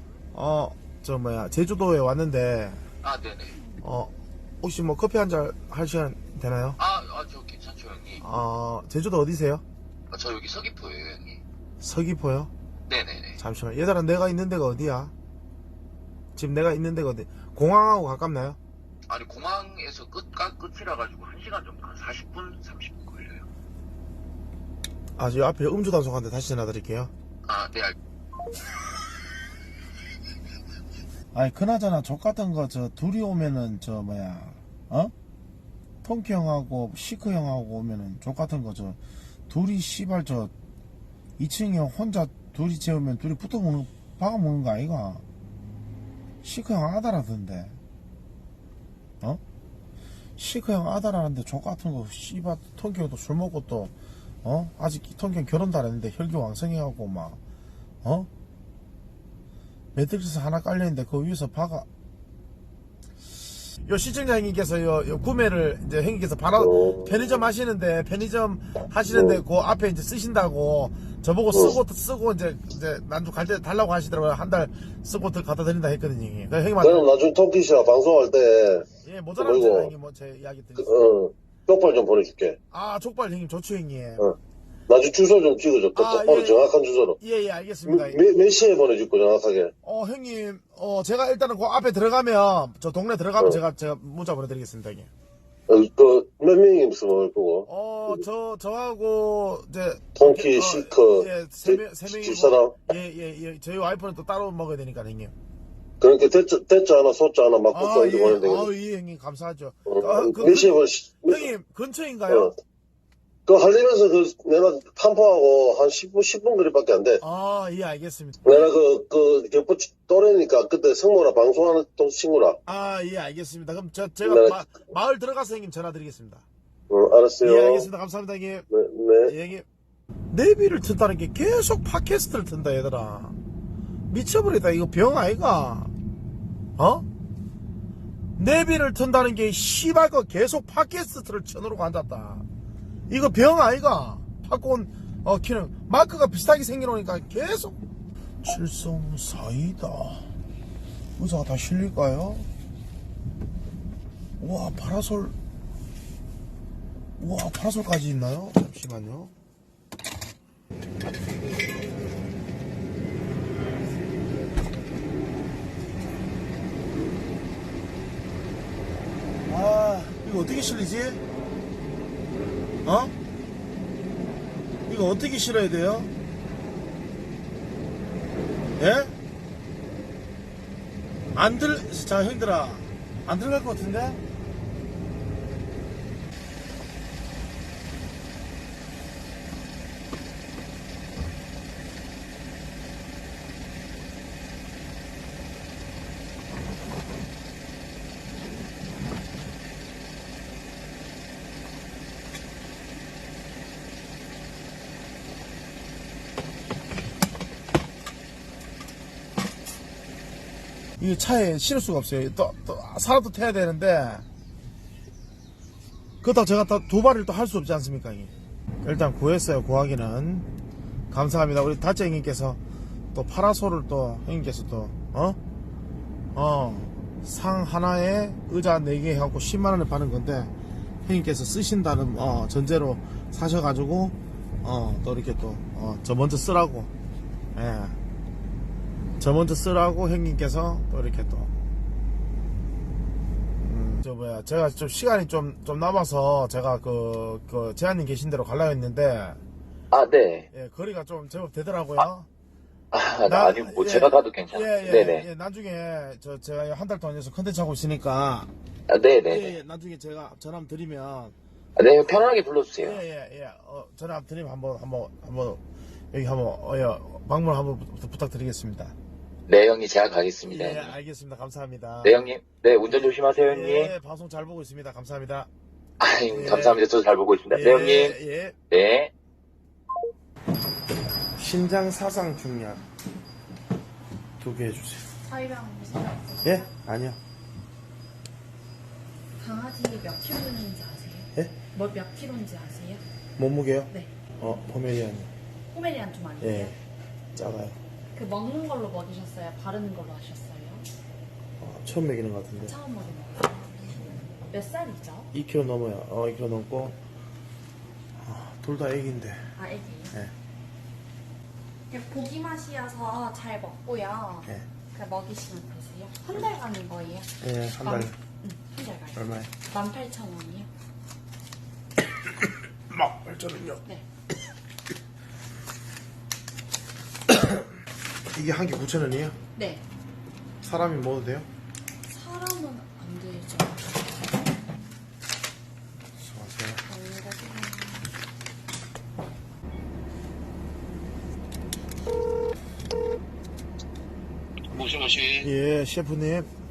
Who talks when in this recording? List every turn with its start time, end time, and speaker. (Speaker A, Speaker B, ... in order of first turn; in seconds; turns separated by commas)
Speaker A: 0.3-2.9, Speaker B: 3.0-3.5, Speaker A: 3.8-6.8, Speaker B: 6.8-8.2, Speaker A: 8.2-9.6, Speaker B: 10.1-11.4, Speaker A: 11.8-12.5, Speaker B: 12.9-13.4, Speaker A: 13.4-15.1, Speaker A: 16.4-18.6, Speaker B: 19.1-23.4, Speaker A: 25.1-27.1, Speaker B: 27.4-27.9, Speaker A: 31.3-35.1, Speaker A: 36.0-40.5, Speaker A: 41.4-45.2, Speaker A: 46.4-47.8, Speaker A: 50.4-57.4, Speaker A: 58.0-58.3, Speaker A: 59.9-61.9, Speaker A: 63.8-77.1, Speaker C: 66.6-67.4, Speaker C: 69.1-69.4, Speaker C: 76.8-78.8, Speaker A: 79.0-81.0, Speaker C: 79.4-79.9, Speaker C: 80.8-82.6, Speaker A: 82.7-84.2, Speaker C: 84.9-87.2, Speaker A: 85.9-88.2, Speaker C: 87.9-89.7, Speaker A: 89.8-95.1, Speaker C: 95.7-98.2, Speaker A: 97.7-105.3, Speaker C: 100.2-102.8, Speaker C: 106.0-108.7, Speaker A: 107.7-112.5, Speaker C: 109.9-111.5, Speaker C: 112.3-112.5, Speaker C: 113.5-117.2, Speaker A: 117.2-118.5, Speaker C: 118.5-122.6, Speaker A: 122.7-126.4, Speaker C: 124.2-124.6, Speaker C: 126.9-127.9, Speaker A: 127.4-128.7, Speaker C: 128.7-129.3, Speaker A: 129.3-129.7, Speaker A: 130.3-133.4, Speaker A: 134.1-135.9, Speaker A: 136.8-137.1, Speaker A: 138.4-142.4, Speaker A: 143.1-147.8, Speaker A: 148.4-150.3, Speaker A: 151.2-152.5, Speaker A: 154.4-155.3, Speaker A: 157.2-159.3, Speaker A: 169.4-171.2, Speaker A: 172.8-173.1, Speaker A: 174.9-176.1, Speaker A: 178.8-179.1, Speaker A: 181.3-184.2, Speaker A: 211.0-214.2, Speaker A: 216.2-220.5, Speaker A: 221.1-222.6, Speaker A: 223.1-225.4, Speaker A: 226.3-230.5, Speaker A: 231.0-236.9, Speaker A: 237.5-238.0, Speaker A: 239.2-241.5, Speaker A: 243.6-249.4, Speaker D: 249.9-250.5, Speaker A: 250.5-252.3, Speaker D: 252.9-255.2, Speaker A: 253.2-258.5, Speaker D: 258.9-259.5, Speaker A: 259.2-261.3, Speaker D: 261.8-263.0, Speaker A: 262.0-262.2, Speaker A: 262.8-268.9, Speaker D: 269.4-270.9, Speaker A: 270.4-272.3, Speaker D: 272.0-273.9, Speaker A: 272.9-275.5, Speaker D: 276.0-278.2, Speaker A: 276.3-276.9, Speaker A: 277.5-278.6, Speaker D: 278.7-279.1, Speaker A: 281.3-282.9, Speaker A: 284.4-285.1, Speaker E: 285.2-286.7, Speaker A: 286.4-287.2, Speaker E: 289.4-293.0, Speaker A: 293.4-295.3, Speaker E: 295.7-296.8, Speaker A: 296.4-296.7, Speaker A: 297.3-297.8, Speaker E: 298.1-300.9, Speaker A: 301.6-302.8, Speaker E: 302.6-303.9, Speaker E: 304.5-305.3, Speaker A: 305.3-307.0, Speaker A: 308.2-309.5, Speaker E: 309.6-310.1, Speaker E: 311.9-317.3, Speaker A: 317.4-318.2, Speaker E: 317.8-320.7, Speaker A: 319.1-319.5, Speaker A: 322.9-323.8, Speaker A: 327.3-327.6, Speaker A: 328.3-329.4, Speaker E: 329.6-329.8, Speaker A: 330.6-331.5, Speaker E: 332.1-334.3, Speaker A: 336.1-336.8, Speaker E: 336.9-338.1, Speaker B: 344.7-345.5, Speaker A: 345.4-346.5